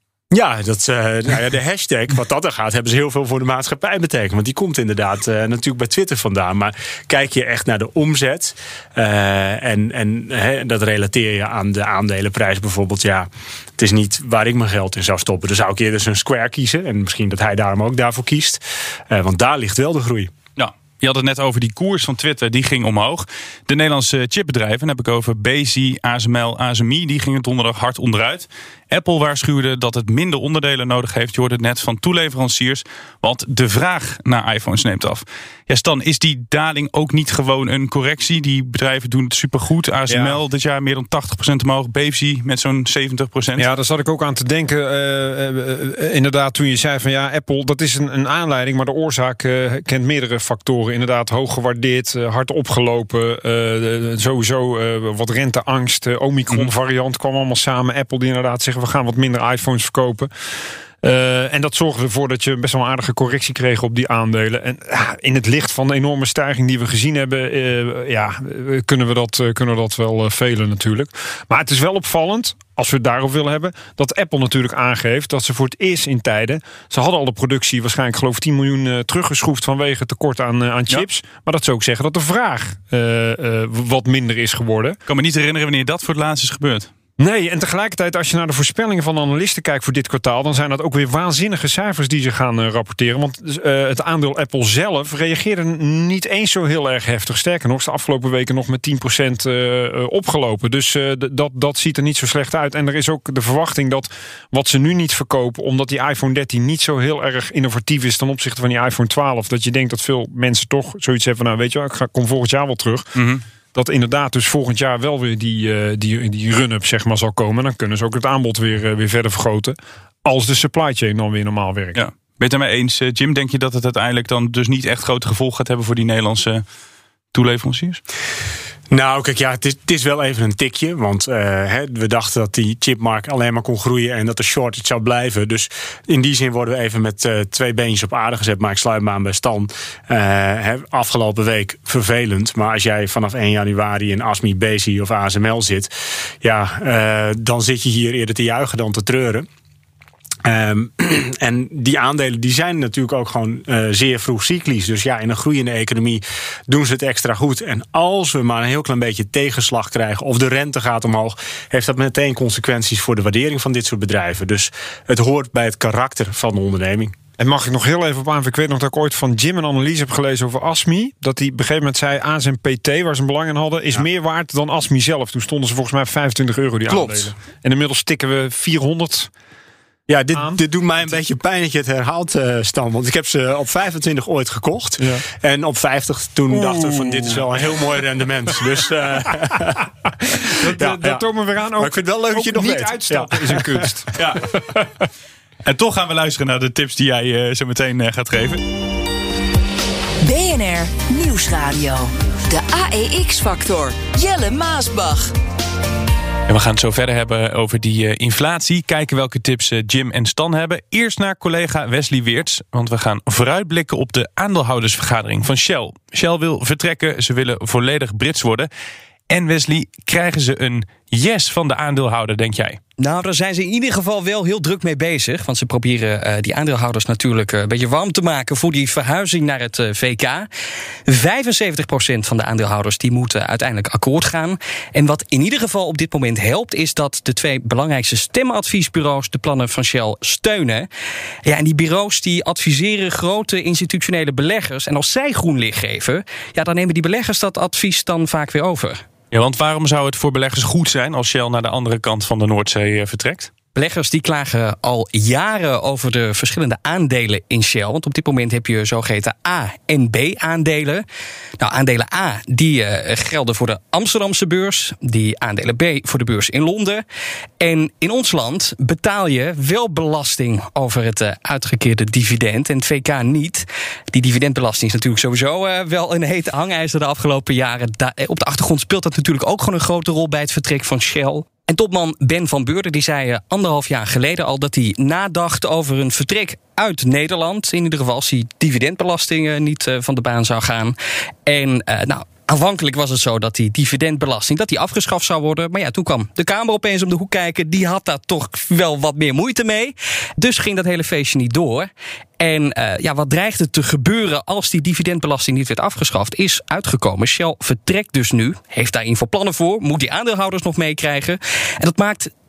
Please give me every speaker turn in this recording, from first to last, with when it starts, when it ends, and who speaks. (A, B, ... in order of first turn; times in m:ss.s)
0:00.3-0:20.3 A
0:20.6-0:43.6 B
0:40.1-0:40.4 C
0:43.6-1:00.3 C
1:01.0-1:25.0 C
1:25.1-1:26.9 B
1:27.2-1:53.1 C
1:53.2-1:53.4 B
1:53.8-2:02.0 C
2:02.0-2:06.6 B
2:07.3-2:08.0 B
2:08.9-2:29.5 A
2:30.4-2:47.2 A
2:47.4-2:59.3 C
2:56.9-2:57.4 A
3:00.1-3:09.9 A
3:00.4-3:00.6 C
3:05.0-3:05.2 C
3:06.5-3:07.5 C
3:10.2-3:14.1 C
3:10.8-3:11.2 A
3:11.8-3:13.9 A
3:14.2-3:14.8 B
3:15.6-3:18.6 B
3:20.2-3:25.3 D
3:26.5-3:38.7 B
3:39.3-3:42.8 B
3:43.0-3:50.5 E
3:51.1-4:00.9 E
4:01.4-4:09.0 E
4:09.3-4:13.5 B
4:13.8-4:21.0 E
4:21.6-4:27.0 E
4:27.6-5:12.3 E